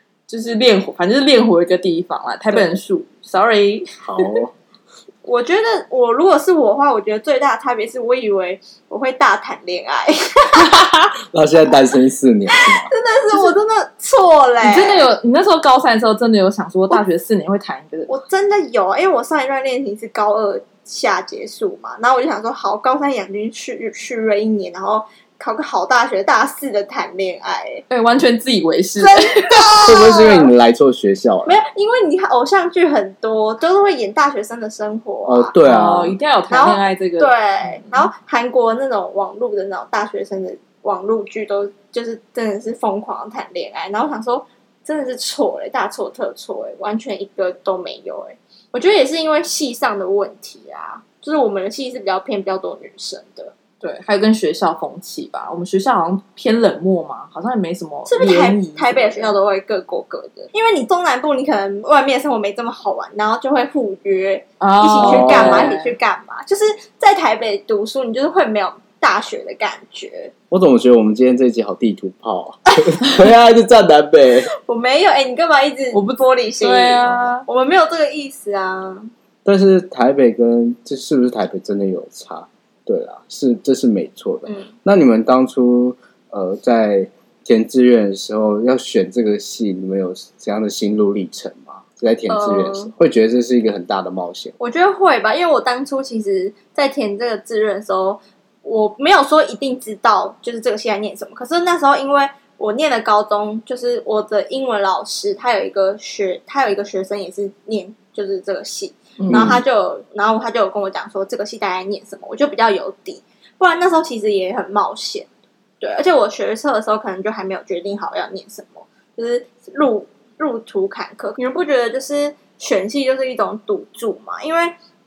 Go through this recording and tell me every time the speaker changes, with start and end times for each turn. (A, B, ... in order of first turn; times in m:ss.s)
0:00.3-0:04.4 A
0:04.0-0:04.5 B
0:05.2-0:10.8 C
0:11.2-0:12.9 B
0:12.5-0:15.1 C
0:13.3-0:13.6 A
0:14.6-0:18.1 A
0:18.1-0:27.8 C
0:27.9-0:29.8 A
0:29.0-0:30.5 C
0:29.8-0:31.6 B
0:31.4-0:35.5 C
0:35.2-0:36.2 B
0:35.6-0:38.0 A
0:36.5-0:53.5 C
0:53.8-0:59.4 A
0:58.1-1:10.3 C
1:04.6-1:06.0 A
1:05.0-1:05.7 B
1:10.5-1:14.5 B
1:14.6-1:19.1 C
1:15.9-1:17.4 A
1:19.4-1:34.5 B
1:32.3-1:32.9 C
1:34.6-1:55.3 C
1:49.2-1:49.5 A
1:49.3-1:49.6 B
1:55.8-2:04.7 C